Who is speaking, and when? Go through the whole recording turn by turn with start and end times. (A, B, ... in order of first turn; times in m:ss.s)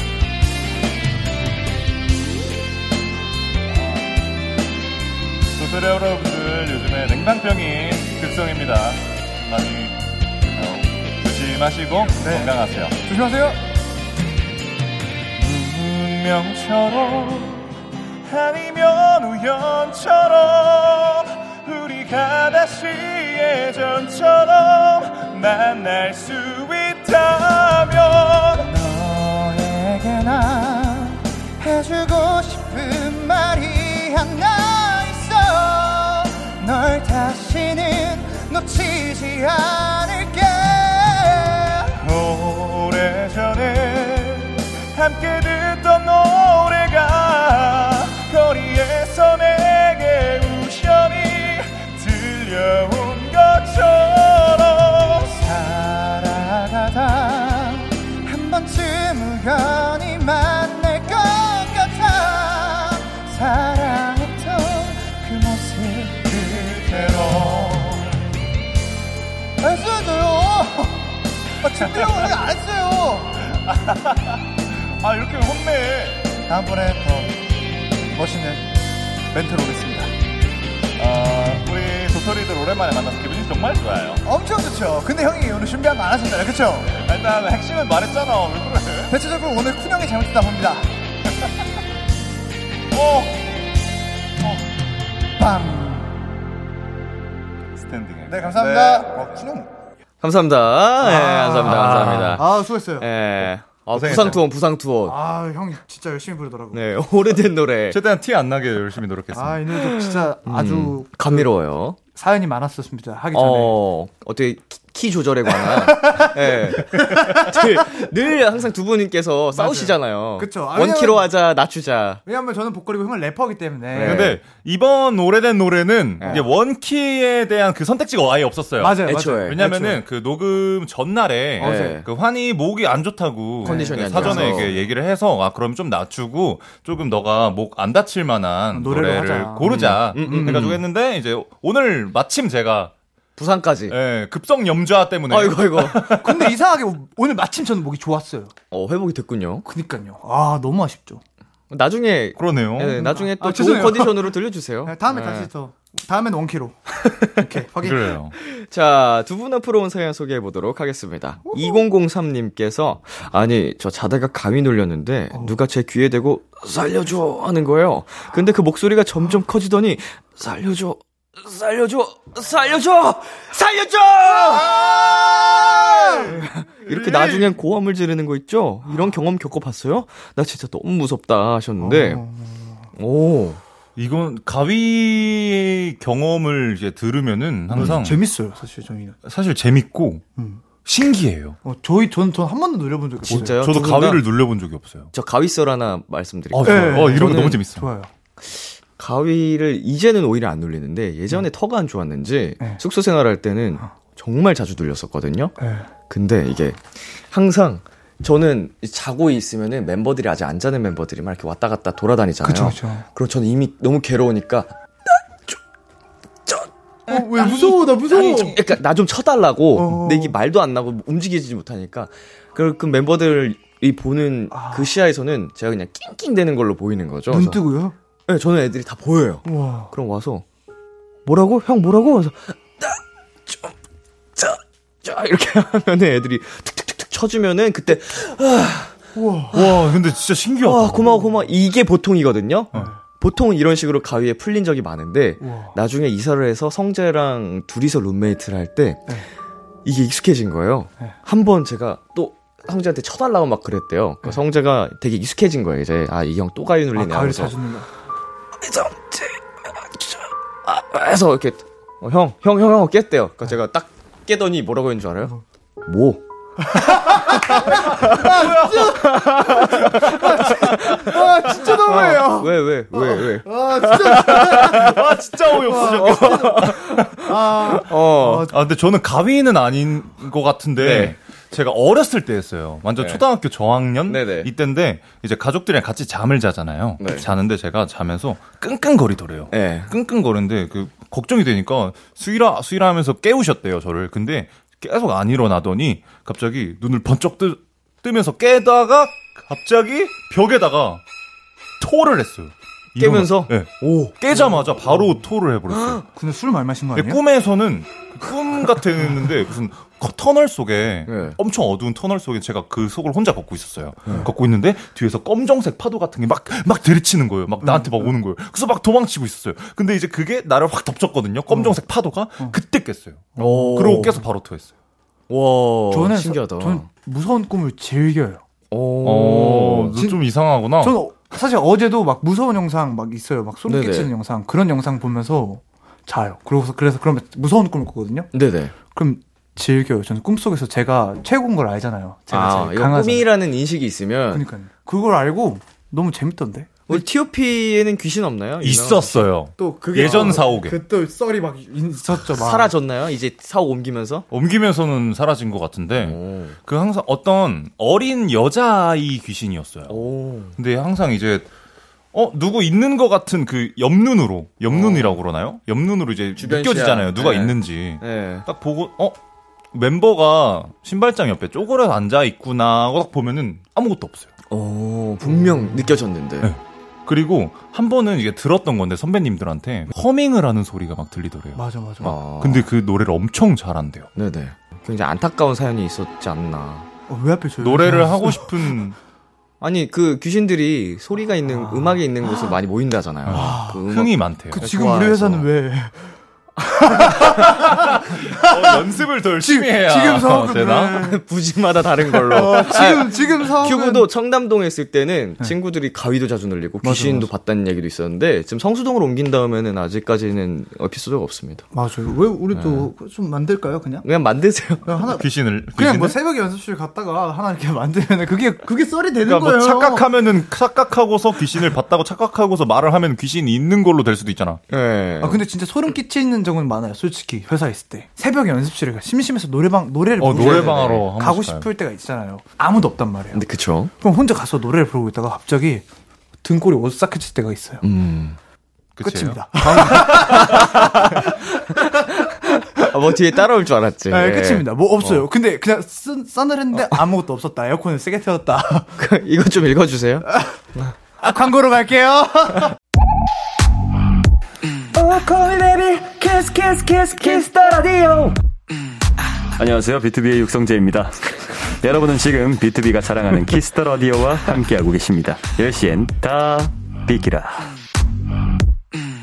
0:05.5-0:10.0 A
0:10.5-0:13.0 A
0:12.2-0:13.6 B
0:15.4-0:17.7 A
0:18.2-0:28.7 A
0:28.6-0:41.9 B
0:42.0-0:55.4 A
0:55.4-1:07.5 B
1:06.5-1:08.2 A
1:09.6-1:13.4 B
1:11.7-1:12.4 A
1:13.5-1:16.4 A
1:16.5-1:17.4 B
1:18.1-1:18.7 B
1:19.3-1:20.1 B
1:21.0-1:24.2 A
1:24.2-1:27.0 B
1:26.9-1:29.1 A
1:29.1-1:30.9 B
1:32.9-1:33.4 A
1:35.4-1:36.2 B
1:37.8-1:39.5 A
1:38.3-1:39.7 B
1:40.2-1:45.2 C
1:41.0-1:43.1 B
1:41.6-1:42.4 A
1:43.9-1:44.4 A
1:45.0-1:46.8 B
1:46.7-1:48.0 C
1:47.9-1:49.9 A
1:49.3-1:51.5 B
1:50.4-1:52.0 C
1:52.1-1:53.8 B
1:53.3-2:02.2 C
1:55.6-1:57.7 B
1:59.5-2:01.3 B
2:02.2-2:04.4 B
2:03.9-2:04.4 C
2:04.0-2:22.9 A
2:06.2-2:06.5 C
2:08.8-2:10.0 B
2:09.0-2:09.6 C
2:11.6-2:12.0 B
2:11.6-2:12.1 C
2:13.6-2:14.8 B
2:13.6-2:14.7 C
2:18.7-2:20.8 B
2:19.6-2:20.8 C
2:23.4-2:24.0 C
2:23.9-2:26.5 A
2:25.3-2:26.2 C
2:26.1-2:28.5 B
2:28.7-2:29.6 C
2:29.6-2:31.2 B
2:31.7-2:35.5 C
2:32.4-2:33.0 A
2:32.9-2:38.2 B
2:37.1-2:37.4 C
2:37.8-2:38.3 A
2:38.4-2:54.8 C
2:41.5-2:41.8 B
2:54.6-2:55.8 A
2:55.8-2:56.3 B
2:56.2-3:02.2 C
2:56.8-2:57.5 A
3:01.8-3:02.8 B
3:03.0-3:03.6 C
3:04.0-3:08.2 A
3:07.7-3:09.2 B
3:09.2-3:10.2 A
3:10.4-3:10.6 B
3:10.8-3:11.6 A
3:11.6-3:13.6 B
3:13.2-3:14.3 C
3:13.3-3:15.1 A
3:15.1-3:17.6 C
3:16.5-3:17.9 A
3:16.6-3:18.1 B
3:18.4-3:25.5 C
3:25.6-3:25.9 B
3:26.1-3:34.7 C
3:32.4-3:33.0 B
3:36.4-3:47.6 C
3:37.1-3:38.6 B
3:39.7-3:40.3 B
3:44.5-3:44.9 B
3:47.3-3:47.9 B
3:48.3-3:50.4 C
3:49.4-3:49.9 B
3:51.2-3:53.7 C
3:54.4-3:58.9 C
3:59.1-3:59.6 B
3:59.5-3:59.8 C
3:59.5-4:01.2 A
4:00.6-4:09.1 C
4:02.7-4:03.0 B
4:05.4-4:05.7 B
4:09.8-4:17.5 C
4:16.9-4:17.9 B
4:18.6-4:25.3 C
4:25.8-4:26.2 C
4:26.6-4:38.5 B
4:27.4-4:34.9 C
4:28.0-4:28.8 A
4:29.9-4:30.6 A
4:34.0-4:37.1 A
4:35.8-4:38.5 C
4:38.5-5:01.0 A
4:40.8-4:41.2 C
4:43.0-4:43.2 C
4:44.0-4:44.5 C
4:47.0-4:47.3 C
4:49.5-4:49.9 C
5:01.8-5:06.0 A
5:03.0-5:04.1 C
5:04.3-5:05.2 B
5:06.0-5:07.2 B
5:06.9-5:24.7 A
5:11.1-5:11.4 C
5:17.6-5:18.1 B
5:21.5-5:21.8 B
5:23.4-5:24.2 B
5:23.4-5:24.2 C
5:25.3-5:26.9 C
5:25.9-5:28.4 B
5:28.7-5:29.9 C
5:29.0-5:30.9 A
5:29.9-5:30.2 B
5:30.8-5:43.3 B
5:33.7-5:34.1 C
5:38.3-5:38.7 C
5:42.3-5:44.4 C
5:44.3-5:47.0 B
5:46.9-5:49.3 C
5:48.6-5:50.8 A
5:49.6-5:52.7 B
5:50.1-5:50.4 C
5:52.3-5:54.2 C
5:54.3-6:00.0 A
5:56.0-5:56.6 C
5:59.9-6:00.6 C
6:00.6-6:01.4 A
6:02.1-6:09.1 A
6:04.7-6:05.2 C
6:06.4-6:08.4 C
6:09.7-6:14.3 A
6:14.5-6:16.5 C
6:16.4-6:21.6 A
6:21.5-6:22.2 B
6:22.0-6:22.7 C
6:22.4-6:24.1 A
6:24.2-6:26.9 C
6:27.1-6:28.6 B
6:27.6-6:29.0 A
6:29.6-6:35.5 C
6:31.4-6:32.5 B
6:33.2-6:34.6 A
6:33.3-6:33.9 B
6:34.5-6:36.0 B
6:36.6-6:41.2 B
6:37.6-6:41.0 A
6:41.0-6:51.6 C
6:42.2-6:44.1 B
6:46.8-6:47.3 B
6:51.7-6:54.1 B
6:52.6-6:52.8 C
6:54.0-6:55.0 C
6:54.8-7:00.1 B
6:55.2-6:56.1 A
6:59.2-7:04.6 A
7:04.7-7:05.4 C
7:05.2-7:13.4 B
7:10.2-7:11.6 A
7:10.3-7:11.0 C
7:13.3-7:13.9 C
7:14.0-7:15.8 B
7:16.4-7:17.8 B
7:17.8-7:18.4 C
7:19.0-7:20.0 A
7:19.0-7:22.1 B
7:19.6-7:25.2 C
7:24.1-7:28.9 B
7:29.0-7:30.3 C
7:31.2-7:32.7 B
7:35.2-7:38.3 D
7:39.6-7:41.1 D
7:41.8-7:47.6 D